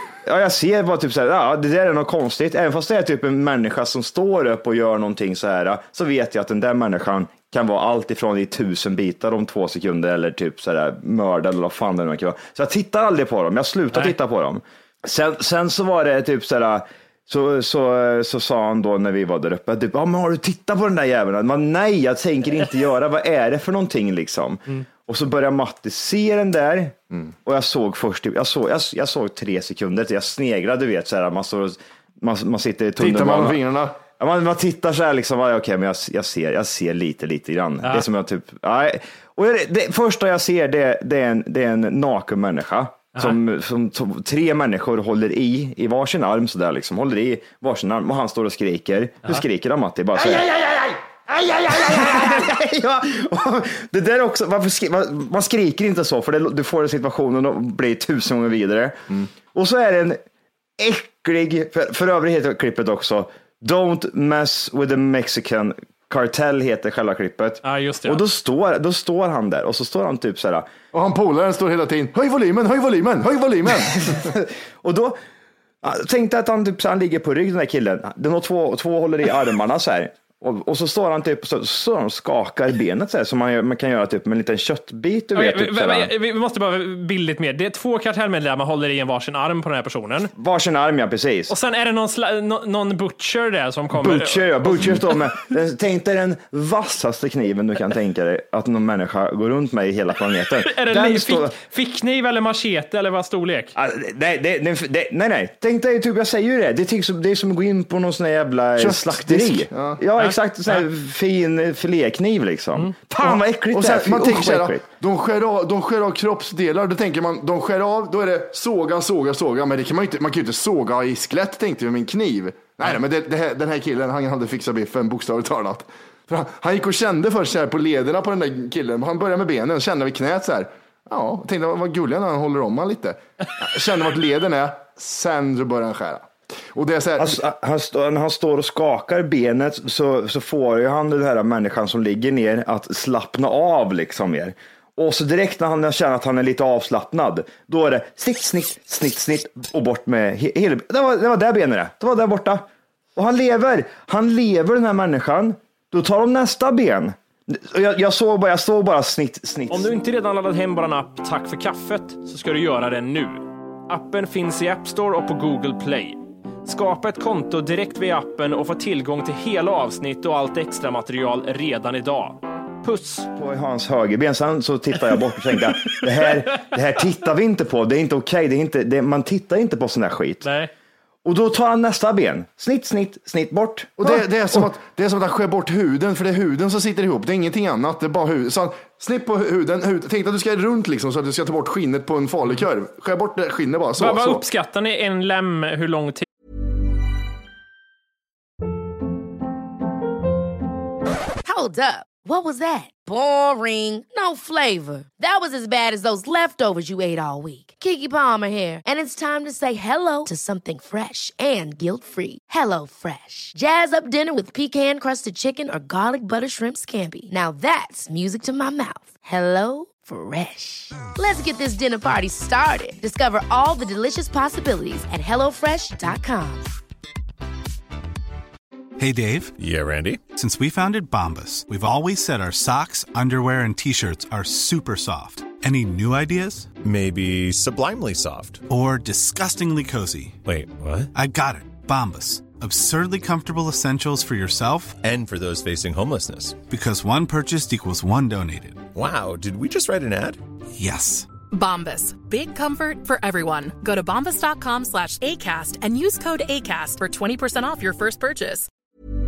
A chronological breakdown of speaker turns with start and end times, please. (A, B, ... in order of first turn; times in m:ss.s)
0:00.2-0:33.6 A
0:33.0-0:34.0 B
0:34.2-1:00.2 A
1:00.8-1:10.7 A
1:07.6-1:08.2 C
1:10.9-1:14.3 B
1:14.0-1:15.2 A
1:15.8-1:26.1 A
1:25.4-1:30.3 C
1:30.4-1:31.5 A
1:31.5-1:35.2 C
1:33.9-1:41.6 A
1:40.6-1:43.8 C
1:43.8-1:54.8 A
1:48.8-1:50.0 B
1:50.2-1:50.9 C
1:53.2-2:17.4 B
2:17.2-2:40.0 A
2:39.7-2:53.3 C
2:53.4-3:00.5 A
3:00.4-3:00.7 C
3:01.2-3:04.7 A
3:04.0-3:14.4 B
3:14.0-3:16.3 C
3:21.4-3:46.6 D
3:49.0-3:49.6 E
3:49.6-3:50.2 F
3:50.3-3:56.8 E
3:56.8-3:58.7 F
3:58.7-4:00.4 E
4:00.5-4:01.1 F
4:01.1-4:05.0 E
4:05.0-4:06.6 F
4:06.6-4:08.9 E
4:08.9-4:10.4 F
4:10.7-4:11.3 E
4:11.5-4:18.7 G